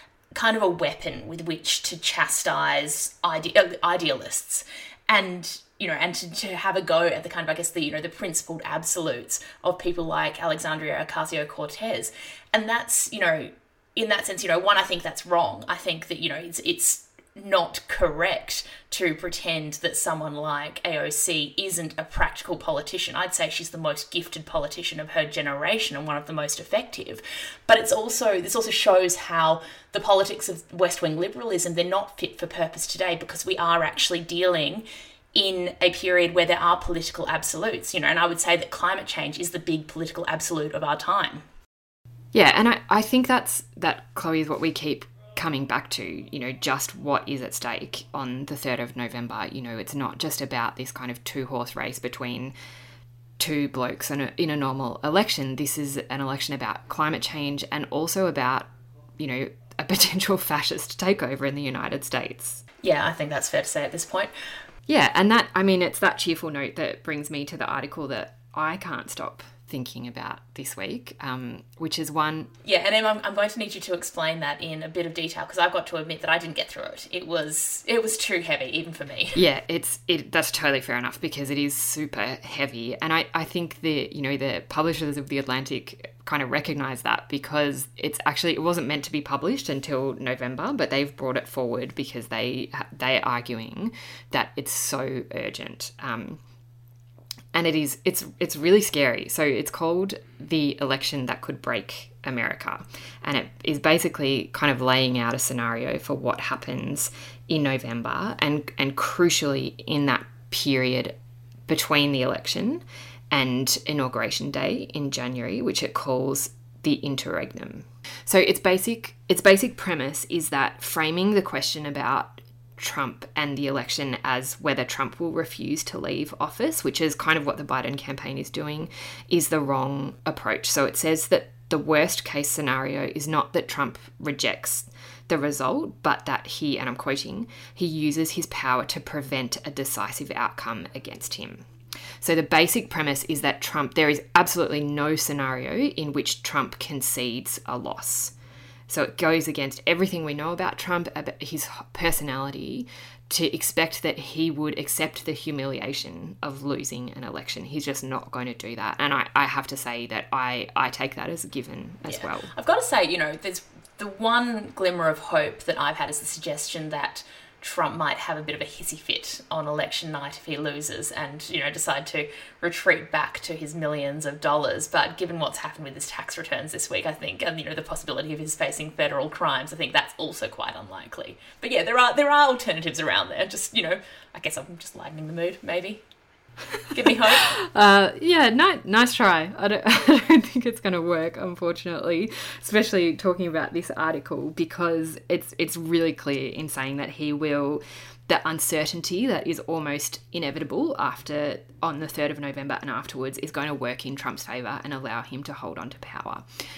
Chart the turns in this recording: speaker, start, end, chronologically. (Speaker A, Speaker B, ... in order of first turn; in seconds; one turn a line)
Speaker A: 0.3-41.4
Speaker B: 42.3-52.5
Speaker B: 53.4-58.7
Speaker B: 59.2-62.6
Speaker A: 62.8-64.3
Speaker B: 64.9-72.5
Speaker A: 72.6-79.4
Speaker B: 79.3-96.4
Speaker B: 97.5-111.2
Speaker B: 111.7-141.7
Speaker B: 142.2-148.3
Speaker B: 148.9-162.5
Speaker A: 162.1-186.0
Speaker A: 186.9-187.5
Speaker B: 187.4-206.4